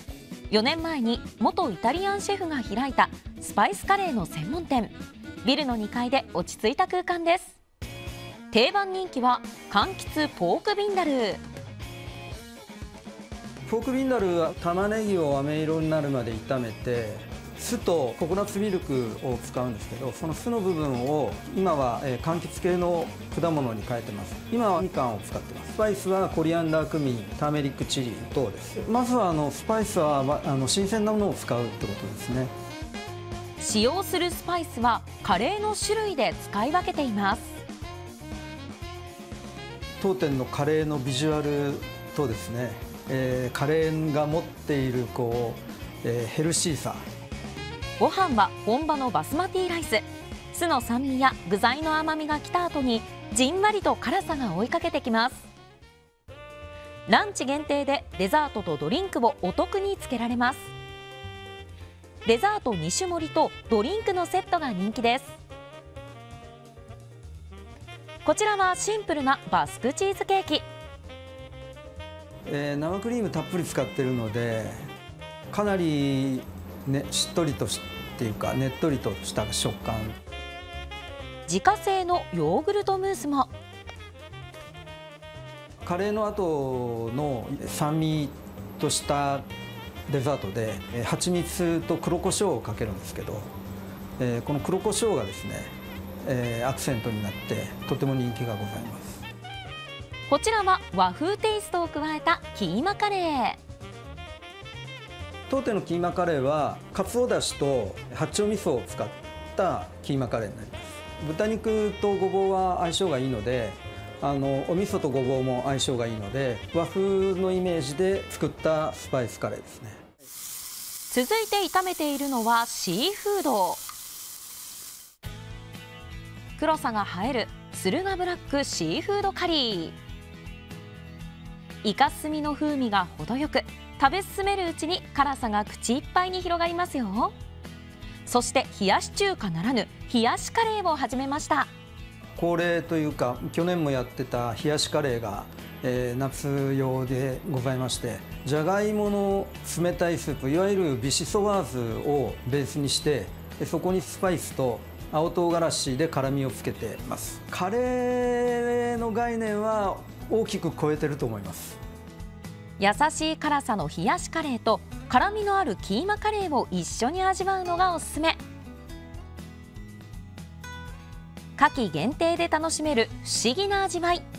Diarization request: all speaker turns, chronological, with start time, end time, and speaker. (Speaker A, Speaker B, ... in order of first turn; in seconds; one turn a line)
Speaker A: 0.5-7.6
Speaker A: 8.5-11.4
Speaker B: 13.7-32.5
Speaker A: 33.6-37.6
Speaker B: 40.0-47.0
Speaker A: 48.0-55.5
Speaker A: 57.1-60.7
Speaker A: 62.2-65.4
Speaker A: 68.2-70.7
Speaker B: 72.5-74.8
Speaker B: 75.5-80.2
Speaker A: 81.5-83.5
Speaker B: 85.8-89.5
Speaker B: 90.1-93.5
Speaker B: 94.2-95.7
Speaker B: 96.2-99.2
Speaker A: 100.3-103.6
Speaker B: 105.5-120.0
Speaker A: 121.1-123.8
Speaker A: 126.6-130.0
Speaker A: 131.8-137.3
Speaker A: 138.3-141.7
Speaker B: 142.4-161.8
Speaker A: 162.8-168.4
Speaker A: 171.6-174.2